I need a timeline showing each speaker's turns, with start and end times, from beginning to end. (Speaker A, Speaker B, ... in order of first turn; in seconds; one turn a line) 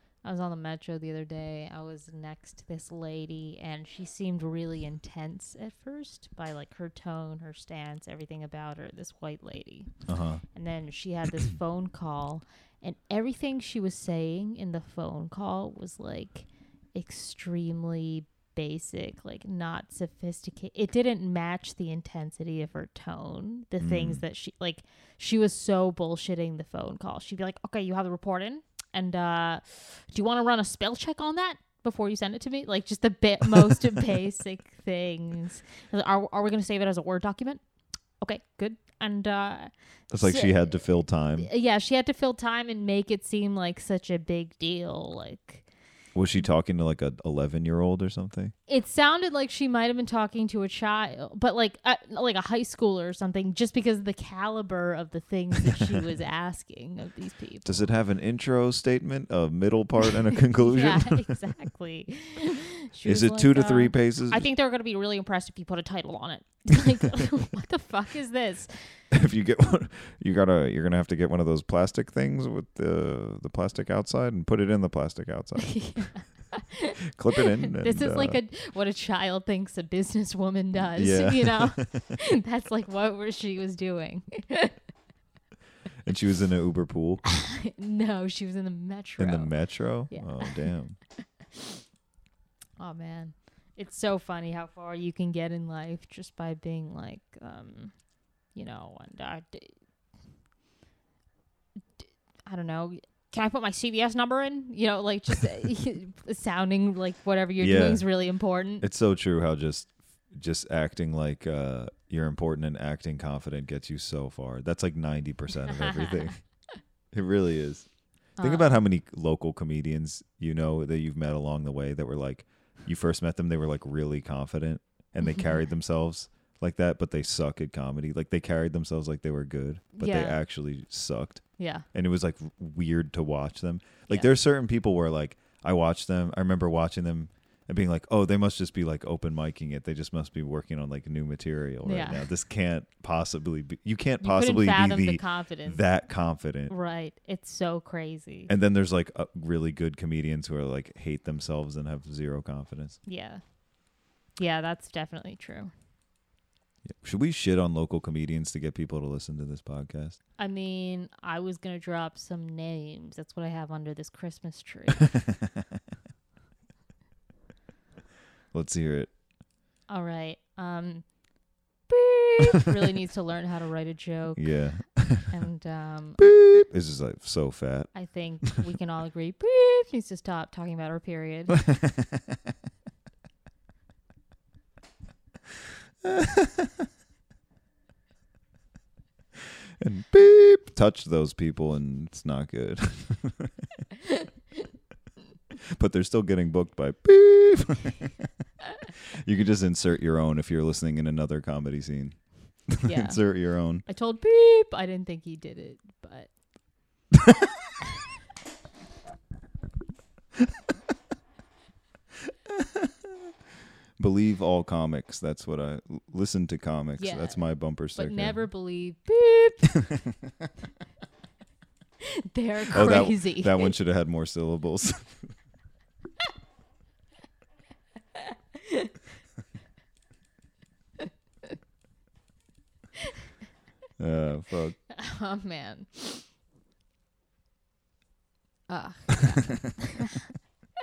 Speaker A: 0.2-9.9
Speaker B: 10.1-10.4
Speaker A: 10.5-37.6
Speaker B: 23.8-24.2
Speaker A: 38.2-45.7
Speaker B: 40.1-41.5
Speaker B: 46.1-48.5
Speaker A: 48.7-57.8
Speaker B: 57.6-61.3
Speaker A: 60.5-69.0
Speaker B: 63.0-64.5
Speaker B: 69.1-76.3
Speaker A: 75.6-84.7
Speaker B: 77.1-78.4
Speaker B: 80.9-82.1
Speaker B: 86.0-87.2
Speaker A: 87.6-90.7
Speaker B: 89.2-91.0
Speaker A: 92.8-99.8
Speaker A: 102.0-108.9
Speaker B: 107.6-108.1
Speaker B: 108.8-116.4
Speaker A: 115.7-116.4
Speaker B: 117.1-146.7
Speaker A: 118.4-118.7
Speaker A: 125.2-125.6
Speaker A: 129.9-130.4
Speaker A: 131.6-131.9
Speaker A: 141.8-142.2
Speaker A: 144.2-145.8
Speaker A: 146.7-148.5
Speaker B: 148.5-153.0
Speaker A: 153.1-153.4
Speaker A: 154.4-155.7
Speaker B: 156.8-160.2
Speaker A: 160.4-165.1
Speaker B: 165.2-165.5
Speaker B: 168.5-169.1
Speaker A: 169.9-171.3
Speaker A: 171.9-174.5
Speaker B: 174.4-175.3
Speaker A: 175.2-176.2
Speaker B: 176.2-178.4
Speaker A: 177.9-181.6
Speaker B: 181.7-182.1
Speaker B: 186.0-186.9
Speaker B: 189.8-193.7
Speaker B: 195.7-198.3
Speaker B: 199.2-203.8
Speaker A: 202.8-206.3
Speaker B: 212.6-212.9
Speaker B: 214.0-218.5
Speaker A: 217.0-219.7
Speaker A: 222.3-223.7
Speaker B: 222.7-225.3
Speaker B: 234.0-234.8
Speaker A: 234.9-236.3
Speaker A: 238.7-239.9